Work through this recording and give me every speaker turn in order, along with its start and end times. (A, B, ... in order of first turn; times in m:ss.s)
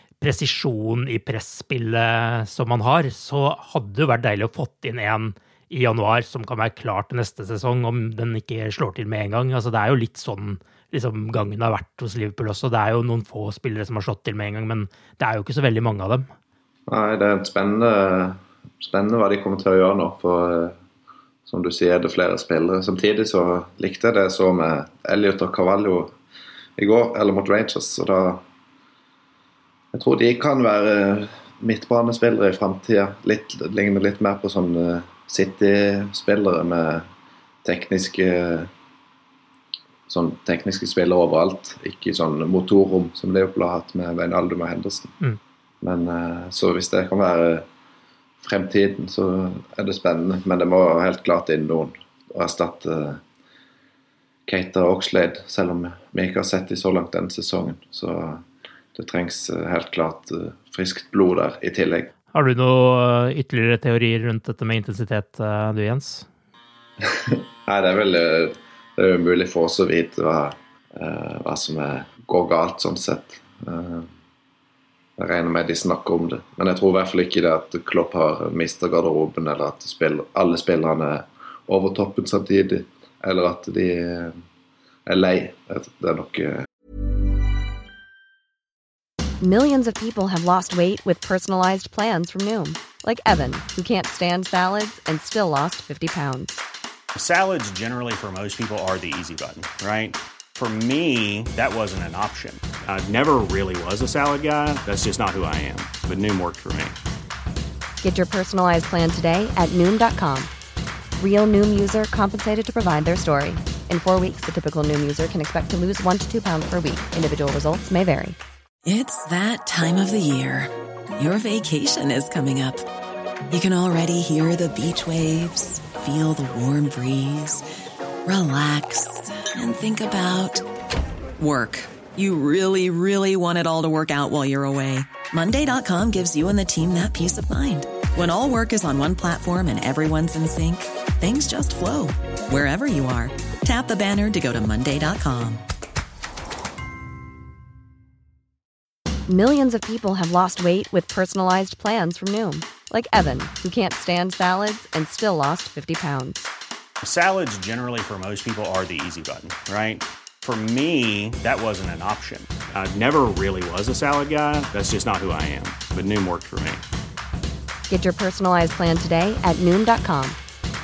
0:00.2-0:16.3 A
0:16.9-0:20.8 B
0:21.4-0:26.1 B
0:26.8-0:28.4 B
0:29.9-0:37.1 B
0:37.6-0:38.7 B
0:40.1-0:45.1 B
0:45.8-0:47.6 B
0:48.4-0:53.2 B
0:54.5-0:58.4 B
0:58.9-1:02.1 B
1:02.3-1:06.3 A
1:07.0-1:14.1 B
1:15.2-1:24.4 B
1:25.1-1:26.6 B
1:29.4-1:36.6 C
1:37.2-1:47.0 D
1:48.0-1:50.5 C
1:51.2-1:58.4 C
1:58.8-2:02.8 E
2:03.5-2:07.6 E
2:08.2-2:10.6 E
2:11.4-2:25.6 E
2:29.3-2:36.5 C
2:37.0-2:46.8 D
2:47.9-2:50.4 C